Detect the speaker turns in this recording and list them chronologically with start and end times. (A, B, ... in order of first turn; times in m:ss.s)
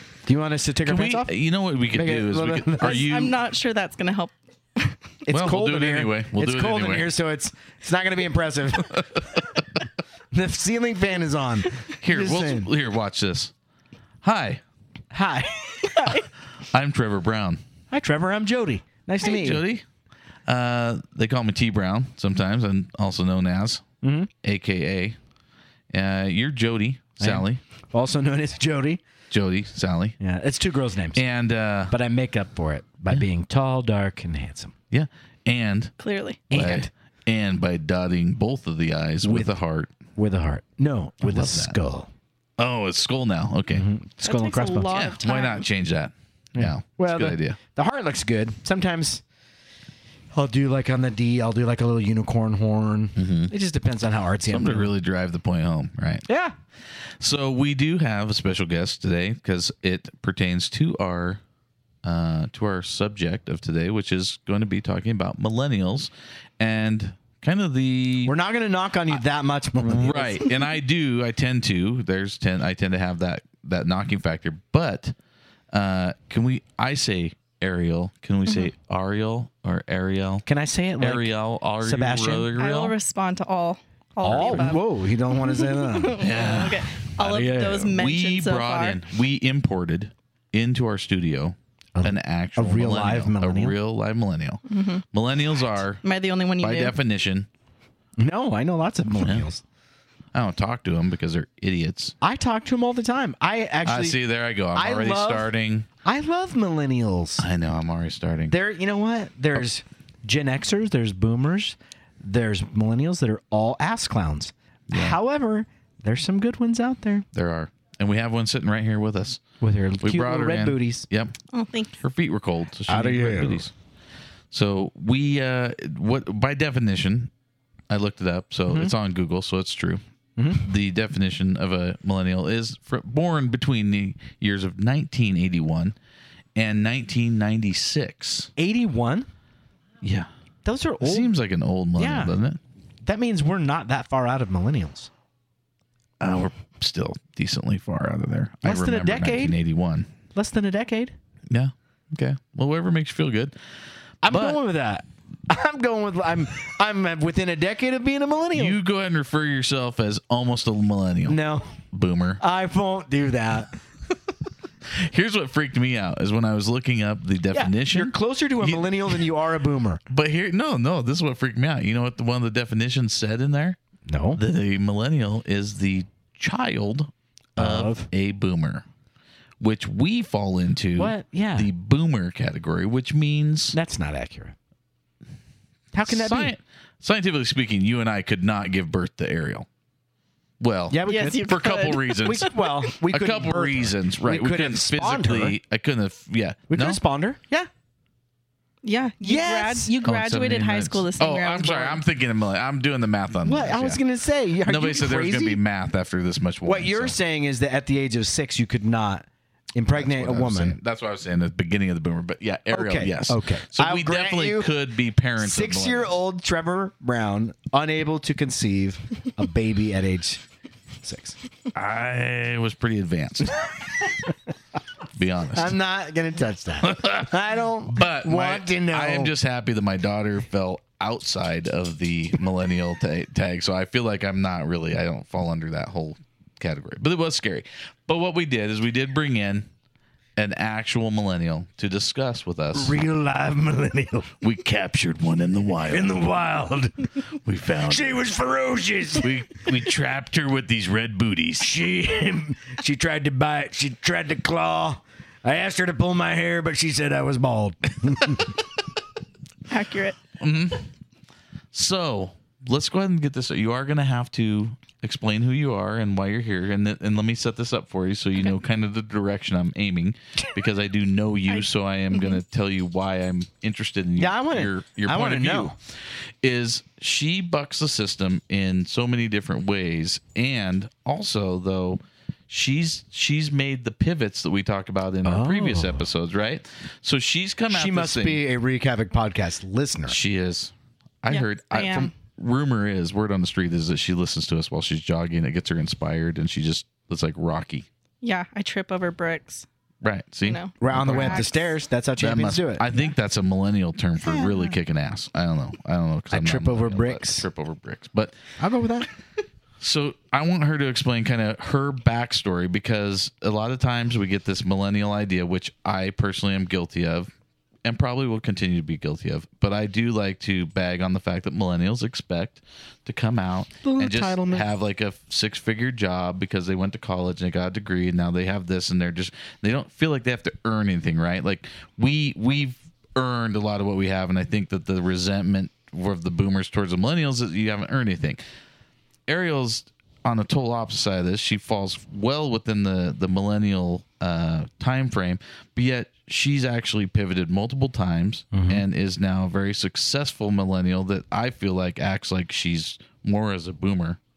0:00.2-0:01.3 A
0:00.8-0:03.4 B
0:01.9-0:03.1 A
0:02.8-0:05.0 C
0:05.2-0:09.4 A
0:05.3-0:07.1 B
0:10.3-0:12.7 A
0:12.0-0:13.5 B
0:14.2-0:14.6 B
0:15.1-0:16.1 A
0:15.8-0:16.2 C
0:16.7-0:17.6 B
0:17.9-0:19.6 A
0:19.2-0:19.8 B
0:20.5-0:23.8 B
0:24.0-0:24.3 A
0:24.4-0:25.2 B
0:25.9-0:27.6 B
0:27.2-0:29.0 A
0:29.3-0:30.2 B
0:30.2-0:31.2 A
0:31.2-0:31.9 B
0:31.9-0:34.7 A
0:34.9-0:35.9 B
0:36.0-0:36.4 C
0:36.5-0:36.9 A
0:36.5-0:39.9 B
0:39.2-0:39.5 A
0:40.2-0:42.1 A
0:41.2-0:41.8 B
0:42.6-0:43.9 B
0:43.7-0:45.0 A
0:44.2-0:45.6 C
0:44.9-0:47.6 B
0:46.5-0:49.2 A
0:50.3-0:54.9 A
0:53.2-0:53.5 B
0:54.5-0:56.2 B
0:56.3-0:56.6 A
0:57.2-1:01.4 B
1:02.0-1:08.3 B
1:08.2-1:10.4 A
1:09.8-1:15.1 B
1:15.7-1:20.4 B
1:20.4-1:22.5 A
1:21.0-1:22.9 B
1:22.6-1:24.8 C
1:24.2-1:24.8 B
1:24.2-1:26.3 A
1:25.3-1:29.0 C
1:26.2-1:27.0 B
1:27.2-1:27.9 A
1:27.9-1:36.0 B
1:31.9-1:33.7 A
1:34.7-1:35.0 C
1:36.0-1:36.9 C
1:36.6-1:37.5 B
1:38.2-1:39.6 A
1:39.2-1:39.4 B
1:40.3-1:42.1 B
1:42.2-1:44.2 A
1:43.8-1:45.9 B
1:44.7-1:45.5 A
1:46.0-1:47.5 A
1:47.4-1:48.5 B
1:48.5-1:57.3 A
1:54.9-1:55.2 B
1:57.3-1:59.4 B
1:59.6-2:01.1 A
2:00.0-2:01.3 B
2:01.5-2:01.9 C
2:02.0-2:03.7 B
2:02.9-2:03.7 A
2:04.5-2:07.3 B
2:07.9-2:10.0 B
2:10.4-2:10.6 A
2:10.6-2:15.9 B
2:16.6-2:18.5 B
2:18.6-2:19.3 A
2:20.0-2:20.3 B
2:20.6-2:21.3 A
2:21.0-2:22.6 B
2:22.0-2:22.3 A
2:23.0-2:25.1 A
2:26.2-2:30.1 B
2:28.6-2:29.5 A
2:30.3-2:31.1 A
2:31.5-2:33.5 B
2:34.2-2:38.8 A
2:34.2-2:34.6 B
2:38.5-2:41.4 B
2:41.2-2:41.8 A
2:41.9-2:42.4 B
2:42.4-2:43.8 A
2:44.9-2:49.1 B
2:47.5-2:50.0 A
2:50.1-2:53.8 B
2:54.1-2:54.4 A
2:54.4-2:58.8 B
2:57.6-2:58.1 A
2:59.6-3:03.8 B
3:01.0-3:01.7 A
3:03.7-3:04.6 A
3:05.9-3:06.5 A
3:06.0-3:09.6 B
3:10.6-3:12.5 B
3:10.9-3:11.5 A
3:11.1-3:12.5 C
3:12.2-3:15.6 A
3:13.0-3:17.0 B
3:16.7-3:17.7 A
3:18.8-3:22.0 C
3:19.2-3:19.9 A
3:20.0-3:24.0 B
3:23.4-3:25.6 A
3:24.6-3:27.2 B
3:26.6-3:30.8 A
3:29.9-3:36.1 B
3:32.7-3:34.7 A
3:35.4-3:40.4 A
3:41.0-3:41.4 A
3:41.7-3:43.7 B
3:45.2-3:45.8 B
3:45.5-3:49.3 A
3:46.8-3:47.3 B
3:47.9-3:59.7 B
4:00.4-4:03.0 B
4:02.7-4:04.3 A
4:04.4-4:06.2 B
4:05.9-4:07.1 A
4:07.4-4:08.2 B
4:07.8-4:09.3 A
4:09.2-4:11.8 B
4:11.6-4:18.6 A
4:19.7-4:20.2 C
4:20.4-4:20.9 B
4:21.7-4:35.8 B
4:31.5-4:32.4 C
4:34.2-4:35.8 A
4:36.4-4:48.4 B
4:45.2-4:46.0 A
4:47.7-4:50.2 A
4:50.1-4:50.7 B
4:51.2-4:57.9 B
4:51.3-4:52.1 C
4:58.2-4:59.7 C
5:00.0-5:01.5 B
5:00.4-5:01.7 C
5:00.8-5:02.8 A
5:02.2-5:08.4 B
5:06.3-5:07.4 A
5:08.6-5:09.1 A
5:09.8-5:17.3 B
5:17.8-5:38.4 B
5:23.8-5:24.6 A
5:39.3-5:54.2 B
5:48.5-5:48.8 A